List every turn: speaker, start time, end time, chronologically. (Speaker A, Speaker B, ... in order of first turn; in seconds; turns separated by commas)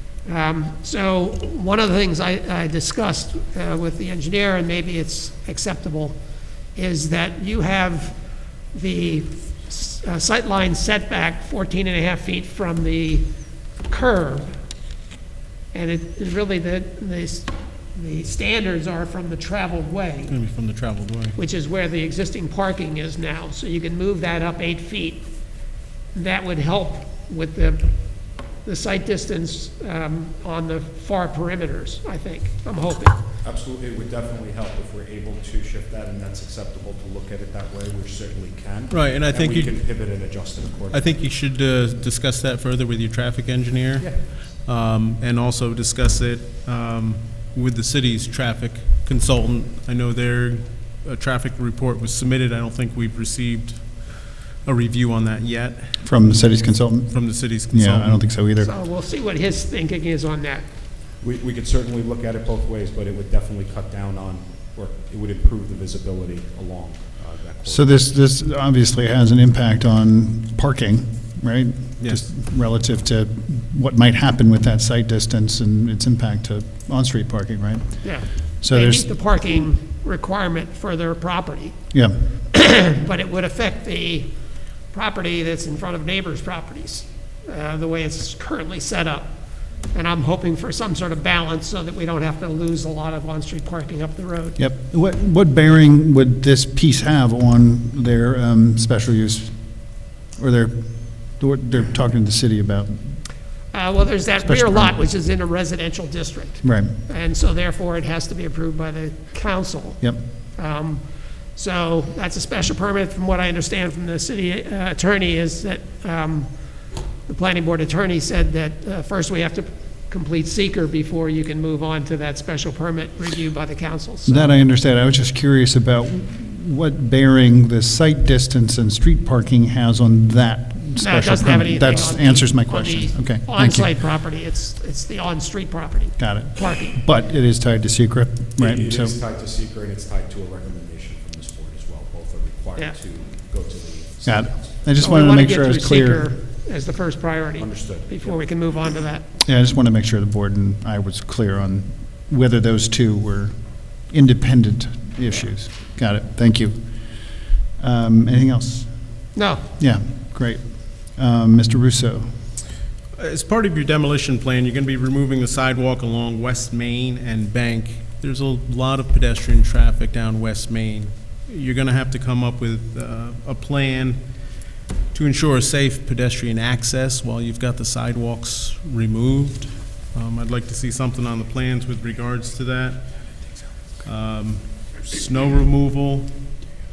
Speaker A: 0.2-6.2, Speaker A: 6.7-8.2, Speaker A: 8.7-13.3, Speaker A: 13.8-14.6, Speaker A: 15.7-20.4, Speaker B: 20.3-21.4, Speaker A: 21.3-25.3, Speaker A: 26.1-28.0, Speaker A: 28.6-33.2, Speaker C: 33.4-41.0, Speaker B: 38.9-56.0, Speaker D: 56.0-58.7, Speaker B: 57.1-58.2, Speaker A: 58.6-60.7, Speaker C: 61.2-68.1, Speaker D: 67.7-79.1, Speaker B: 72.0-72.3, Speaker A: 78.0-81.8, Speaker A: 82.5-94.6, Speaker D: 94.6-103.3, Speaker A: 103.7-124.5, Speaker D: 104.4-105.0, Speaker D: 106.6-106.9, Speaker D: 124.2-134.0, Speaker A: 131.0-137.0, Speaker D: 136.2-139.2, Speaker C: 138.6-144.8, Speaker D: 144.2-146.2, Speaker A: 145.0-149.2, Speaker C: 147.6-148.3, Speaker D: 149.4-156.8, Speaker D: 157.8-159.2, Speaker A: 159.3-159.7, Speaker D: 159.8-162.3, Speaker B: 163.1-174.4, Speaker B: 175.1-186.7